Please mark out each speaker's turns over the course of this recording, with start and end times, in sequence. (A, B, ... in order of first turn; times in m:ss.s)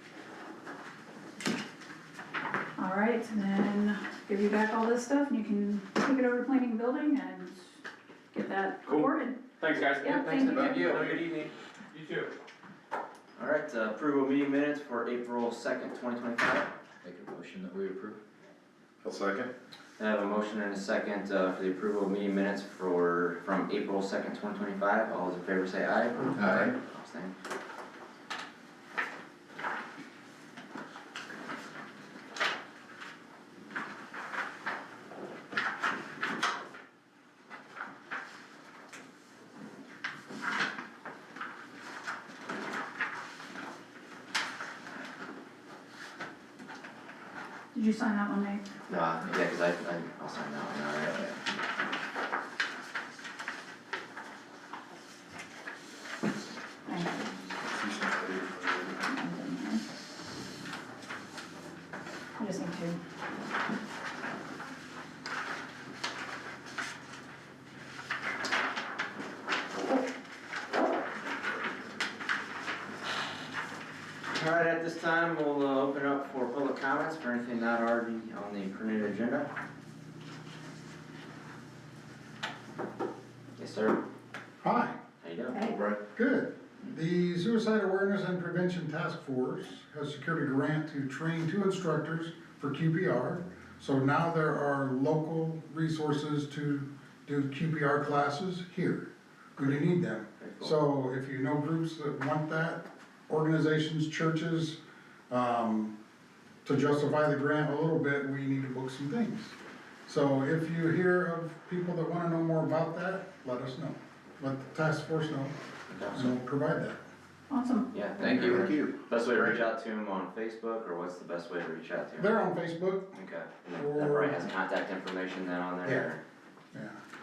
0:02.8-0:07.8 A
0:08.3-0:11.0 A
0:09.6-0:12.3 B
0:10.5-0:11.1 C
0:13.4-0:16.7 D
0:17.0-0:18.2 E
0:19.0-0:19.5 C
0:20.0-0:27.3 D
0:26.4-0:26.7 E
0:26.4-0:26.7 C
0:47.7-0:48.6 A
0:48.9-0:51.4 D
0:56.9-0:57.3 A
0:57.7-0:58.9 C
0:59.1-0:59.9 A
1:02.4-1:03.0 A
1:14.3-1:19.5 D
1:23.6-1:24.0 D
1:24.6-1:25.0 F
1:25.2-1:25.6 D
1:25.6-1:26.0 C
1:26.1-1:44.8 F
1:40.4-1:40.7 D
1:45.3-1:45.9 F
1:46.6-1:49.6 F
1:50.1-1:55.6 F
1:55.9-1:56.3 D
1:56.1-1:57.0 F
1:57.5-1:57.9 A
1:57.9-2:02.3 D
1:58.2-1:58.7 E
1:58.3-1:59.6 C
2:02.2-2:03.2 F
2:03.2-2:06.2 D
2:03.8-2:04.5 F
2:06.7-2:07.0 F